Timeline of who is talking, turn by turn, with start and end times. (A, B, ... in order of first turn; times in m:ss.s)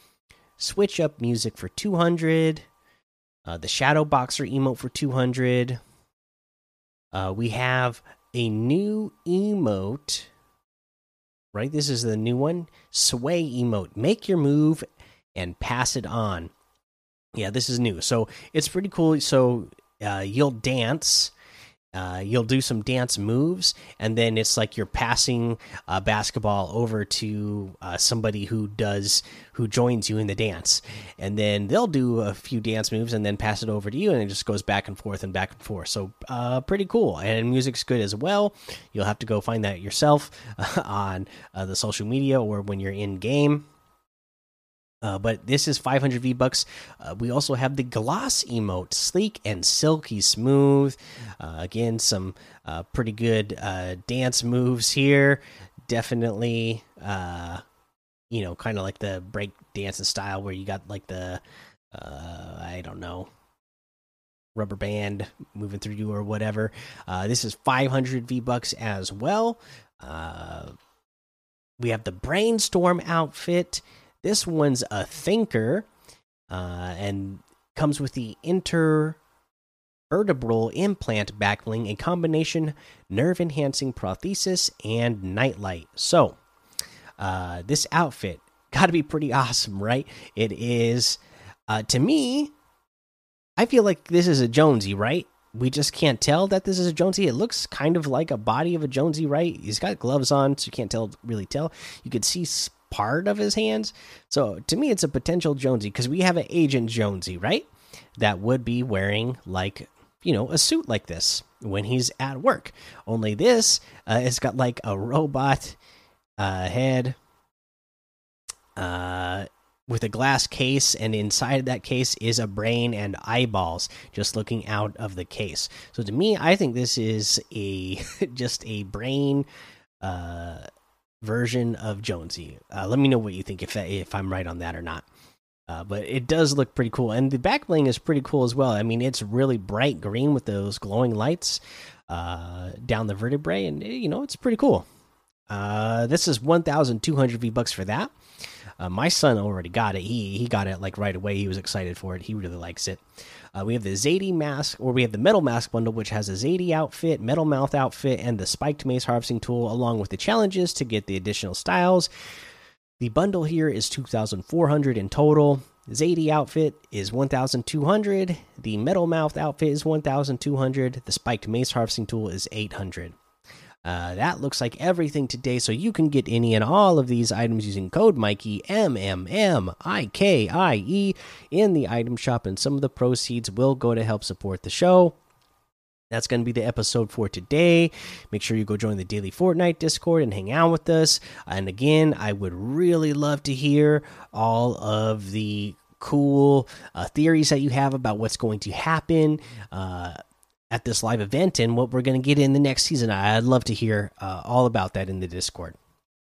0:00.6-0:02.6 A
0:03.4-0:05.8 A
0:07.1-0:10.3 A
0:11.5-0:16.5 A
0:17.3-0:21.3 A
0:21.9-0:43.7 A
0:45.0-0:57.6 A
0:58.3-1:03.3 A
1:04.5-1:10.8 A
1:11.8-1:15.9 A
1:16.5-1:19.2 A
1:20.1-1:26.4 A
1:27.2-1:32.5 A
1:33.6-1:55.8 A
1:56.4-1:57.2 A
1:58.8-2:09.5 A
2:10.0-2:10.6 A
2:11.2-2:15.1 A
2:15.7-2:24.8 A
2:25.5-2:28.1 A
2:28.8-2:33.0 A
2:33.5-2:42.1 A
2:43.0-2:53.2 A
2:53.8-3:05.2 A
3:06.1-3:20.2 A
3:20.7-3:25.8 A